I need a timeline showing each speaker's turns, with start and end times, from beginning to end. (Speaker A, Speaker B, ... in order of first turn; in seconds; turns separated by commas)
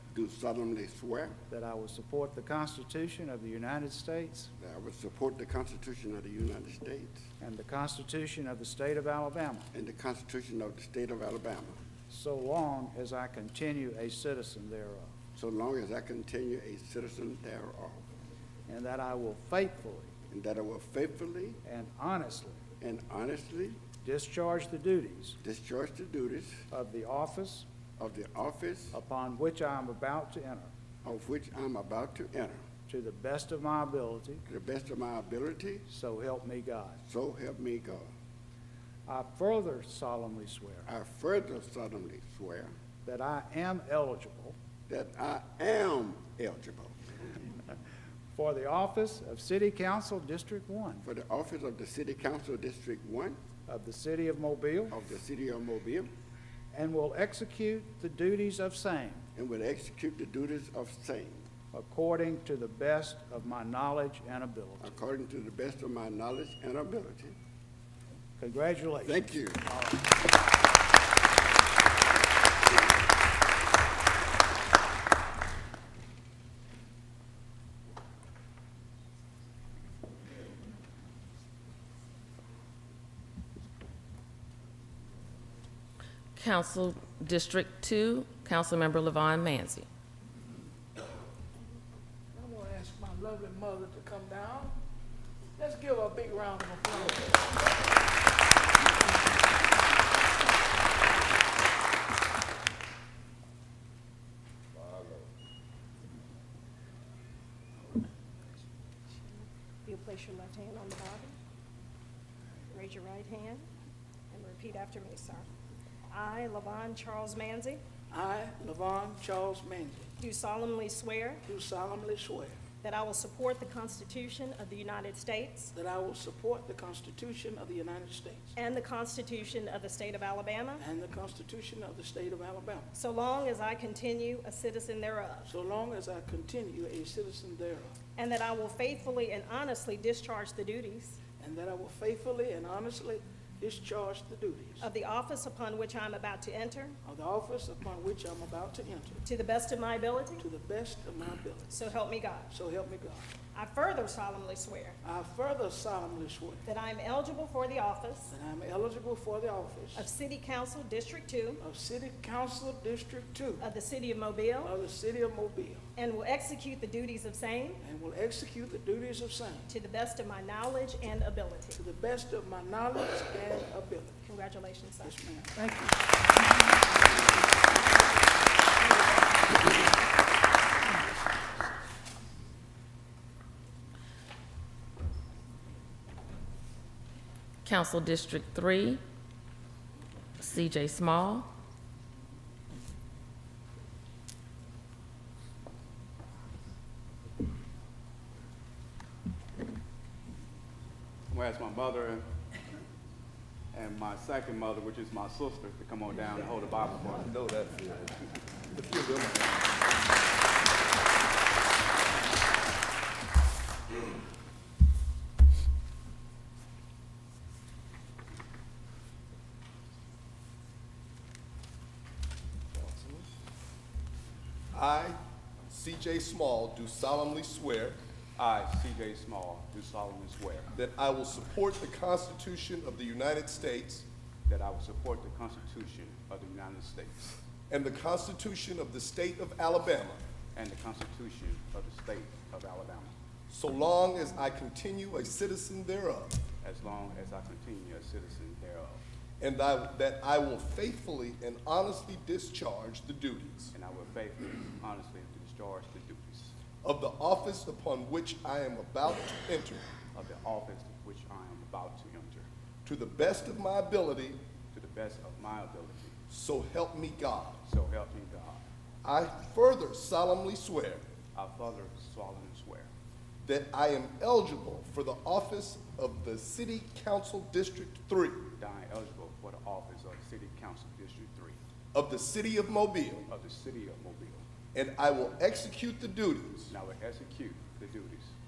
Speaker A: 0.1-1.4, Speaker B: 1.5-4.5, Speaker A: 4.6-7.3, Speaker B: 7.4-9.7, Speaker A: 9.7-11.8, Speaker B: 12.1-15.1, Speaker A: 15.3-18.1, Speaker B: 18.7-20.1, Speaker A: 20.3-21.6, Speaker B: 21.6-22.6, Speaker A: 22.8-23.8, Speaker B: 24.0-25.4, Speaker A: 25.4-26.7, Speaker B: 26.7-27.7, Speaker A: 28.0-29.0, Speaker B: 28.9-30.7, Speaker A: 31.0-32.6, Speaker B: 32.9-34.4, Speaker A: 34.5-35.9, Speaker B: 35.9-37.0, Speaker A: 37.0-38.1, Speaker B: 39.1-40.9, Speaker A: 40.9-42.7, Speaker B: 43.0-44.6, Speaker A: 44.9-47.0, Speaker B: 48.3-51.0, Speaker A: 51.0-53.4, Speaker B: 53.7-55.0, Speaker A: 54.9-56.1, Speaker B: 56.7-59.2, Speaker A: 59.4-61.5, Speaker B: 61.7-65.0, Speaker A: 64.8-67.4, Speaker B: 68.4-70.0, Speaker A: 69.0-69.7, Speaker C: 86.4-89.9, Speaker D: 92.3-94.8, Speaker D: 95.6-97.4, Speaker E: 109.3-111.3, Speaker E: 112.7-113.6, Speaker E: 114.3-115.5, Speaker E: 116.1-117.8, Speaker D: 118.1-120.1, Speaker E: 120.2-121.4, Speaker D: 121.5-122.6, Speaker E: 122.8-125.7, Speaker D: 125.8-128.5, Speaker E: 128.6-130.8, Speaker D: 130.8-132.9, Speaker E: 132.9-135.5, Speaker D: 135.5-137.9, Speaker E: 138.2-141.2, Speaker D: 141.4-144.8, Speaker E: 144.8-147.0, Speaker D: 147.0-149.2, Speaker E: 149.2-150.5, Speaker D: 150.4-151.8, Speaker E: 151.7-152.5, Speaker D: 152.5-153.3, Speaker E: 153.5-155.0, Speaker D: 155.0-156.6, Speaker E: 156.7-158.3, Speaker D: 158.3-160.1, Speaker E: 159.9-161.6, Speaker D: 161.6-163.7, Speaker E: 163.6-164.8, Speaker D: 164.6-165.8, Speaker E: 166.0-167.8, Speaker D: 167.8-169.7, Speaker E: 169.7-171.8, Speaker D: 171.8-174.2, Speaker E: 174.2-175.2, Speaker D: 175.0-176.0, Speaker C: 187.6-189.0, Speaker C: 190.4-191.5, Speaker F: 201.3-202.3, Speaker F: 203.7-207.3, Speaker G: 207.1-208.1, Speaker G: 208.7-209.6, Speaker G: 222.7-223.3, Speaker G: 224.7-228.0, Speaker F: 228.4-230.7, Speaker G: 230.7-234.1, Speaker F: 234.5-237.4, Speaker G: 237.7-240.2, Speaker F: 240.5-243.1, Speaker G: 243.5-246.4, Speaker F: 246.6-249.0, Speaker G: 249.4-253.7, Speaker F: 253.7-256.5, Speaker G: 256.8-259.9, Speaker F: 260.1-262.5, Speaker G: 262.9-264.4, Speaker F: 264.7-266.1, Speaker G: 266.3-267.6, Speaker F: 267.6-268.6, Speaker G: 269.0-271.0, Speaker F: 271.4-272.9, Speaker G: 273.4-278.5, Speaker F: 278.6-281.6, Speaker G: 281.9-283.3, Speaker F: 283.3-284.4, Speaker G: 284.7-286.7, Speaker F: 286.7-288.4